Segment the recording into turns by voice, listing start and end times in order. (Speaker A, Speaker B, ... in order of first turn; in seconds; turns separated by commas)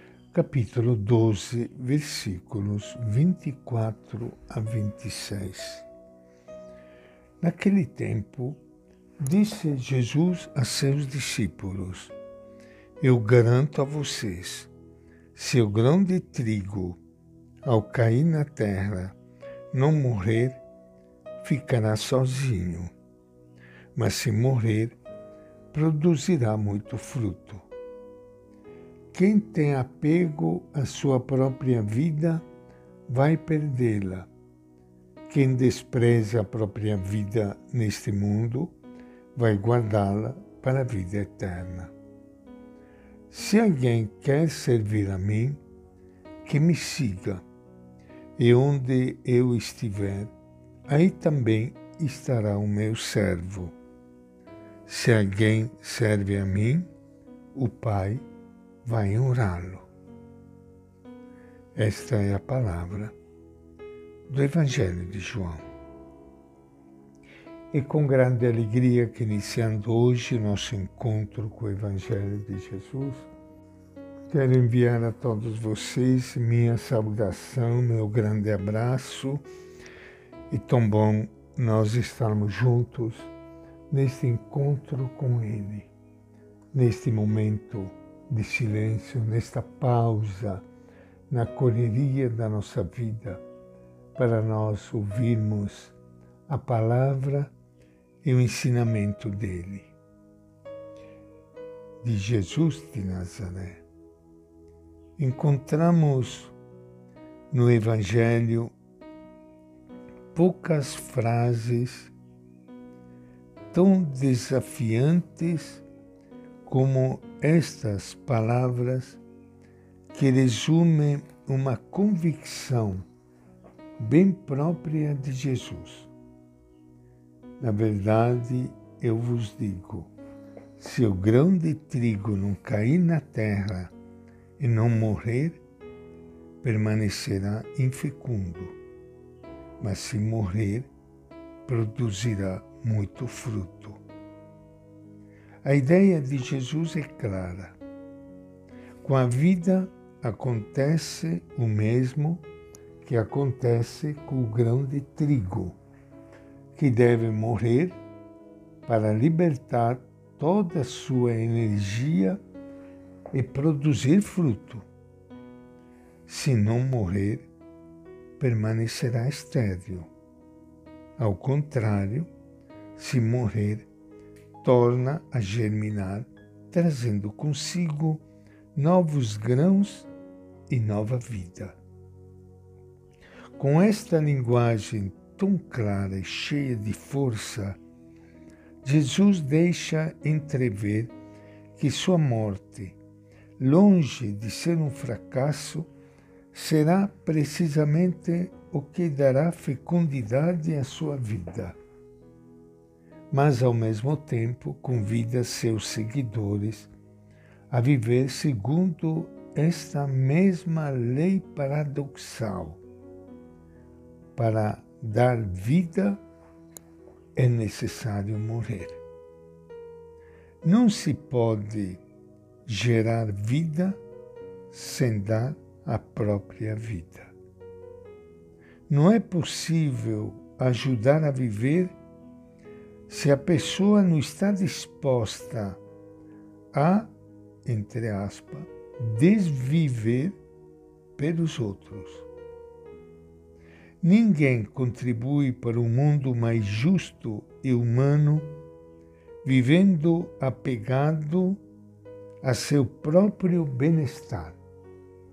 Speaker A: 0.3-5.8, Speaker A: 7.4-8.6, Speaker A: 9.2-12.1, Speaker A: 13.0-14.7, Speaker A: 15.3-17.0, Speaker A: 17.6-19.2, Speaker A: 19.7-20.6, Speaker A: 21.4-22.9, Speaker A: 23.9-25.0, Speaker A: 25.7-27.7, Speaker A: 29.1-32.5, Speaker A: 33.1-34.3, Speaker A: 35.3-38.8, Speaker A: 39.3-41.9, Speaker A: 43.3-45.6, Speaker A: 46.4-47.4, Speaker A: 48.4-50.3, Speaker A: 50.9-53.7, Speaker A: 54.9-56.9, Speaker A: 57.5-58.2, Speaker A: 58.8-59.9, Speaker A: 61.7-63.1, Speaker A: 64.3-65.6, Speaker A: 67.7-73.3, Speaker A: 74.3-79.4, Speaker A: 80.5-83.3, Speaker A: 83.9-85.9, Speaker A: 86.7-90.6, Speaker A: 91.3-93.4, Speaker A: 94.1-97.5, Speaker A: 98.2-99.9, Speaker A: 102.0-103.8, Speaker A: 105.2-106.5, Speaker A: 107.5-108.7, Speaker A: 110.3-112.1, Speaker A: 113.7-115.8, Speaker A: 116.6-119.2, Speaker A: 120.1-123.0, Speaker A: 124.0-126.1, Speaker A: 127.6-130.1, Speaker A: 130.8-133.9, Speaker A: 134.6-135.6, Speaker A: 136.6-138.8, Speaker A: 139.8-140.9, Speaker A: 141.7-144.0, Speaker A: 145.6-147.8, Speaker A: 149.0-152.4, Speaker A: 153.0-155.8, Speaker A: 156.7-158.0, Speaker A: 158.8-162.4, Speaker A: 163.3-164.8, Speaker A: 166.2-167.5, Speaker A: 168.4-170.1, Speaker A: 171.2-172.3, Speaker A: 172.9-173.9, Speaker A: 174.6-178.2, Speaker A: 178.7-180.1, Speaker A: 180.7-181.8, Speaker A: 183.6-187.8, Speaker A: 188.8-191.1, Speaker A: 191.8-193.0, Speaker A: 193.6-195.9, Speaker A: 196.5-201.8, Speaker A: 203.3-206.9, Speaker A: 207.7-212.8, Speaker A: 214.3-216.2, Speaker A: 217.3-219.0, Speaker A: 220.6-222.0, Speaker A: 222.7-224.0, Speaker A: 224.7-227.3, Speaker A: 228.9-232.0, Speaker A: 233.1-235.8, Speaker A: 236.7-237.1, Speaker A: 237.6-240.4, Speaker A: 241.2-242.3, Speaker A: 244.0-248.5, Speaker A: 249.4-251.6, Speaker A: 252.4-254.6